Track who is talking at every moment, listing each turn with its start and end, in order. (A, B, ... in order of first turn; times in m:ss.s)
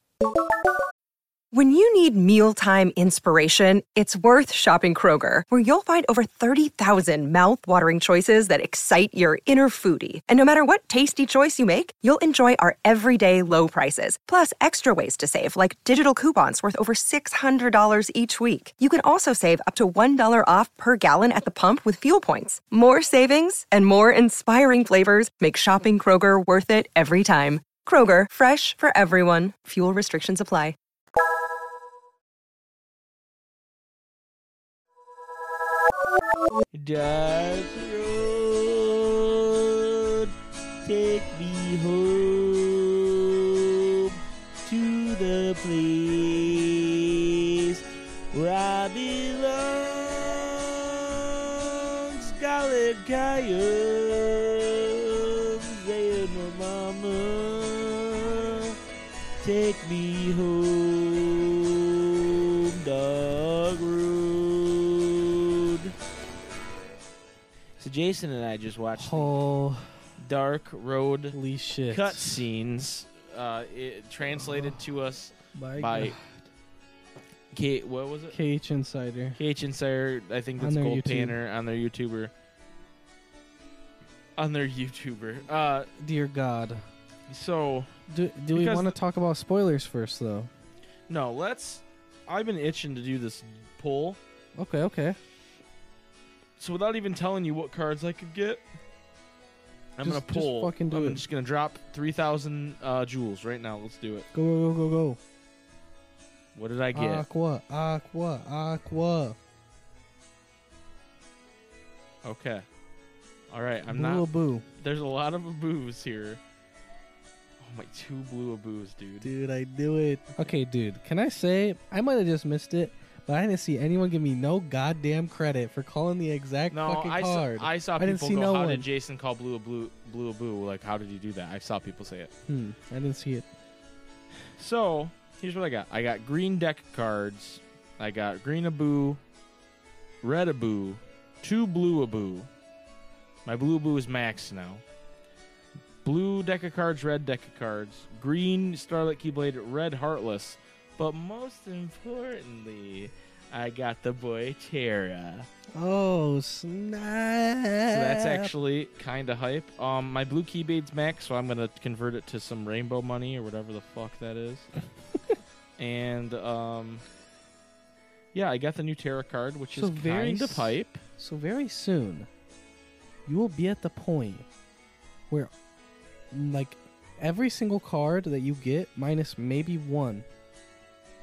0:01.5-0:30.8 A
0:36.7-0:40.3 B
0:40.8-0:58.8 B
0:59.4-1:05.9 B
1:07.8-1:09.3 B
1:09.0-1:10.0 C
1:10.2-1:11.4 B
1:11.3-1:12.5 C
1:11.9-1:16.2 B
1:15.5-1:16.3 C
1:17.5-1:18.4 B
1:18.3-1:19.4 C
1:19.4-1:22.3 B
1:20.6-1:21.4 C
1:24.4-1:25.9 B
1:26.0-1:26.8 C
1:27.3-1:28.0 B
1:28.1-1:30.5 C
1:28.5-1:29.0 B
1:31.1-1:34.2 B
1:34.6-1:35.2 C
1:36.6-1:38.6 B
1:40.0-1:44.3 B
1:40.0-1:41.2 C
1:44.3-1:45.2 C
1:46.6-1:47.2 B
1:46.9-1:49.4 C
1:52.2-1:52.6 B
1:53.5-1:54.3 B
1:53.9-1:54.7 C
1:54.8-1:56.4 B
1:57.6-1:59.3 B
1:59.2-2:08.9 C
2:06.7-2:12.3 B
2:12.5-2:13.5 C
2:14.6-2:19.2 B
2:20.2-2:22.5 B
2:23.5-2:24.8 B
2:26.0-2:35.5 B
2:35.7-2:38.5 C
2:37.9-2:44.7 B
2:45.8-2:47.0 B
2:48.3-2:51.0 B
2:49.8-2:52.3 C
2:53.3-2:54.5 C
2:56.3-3:00.3 C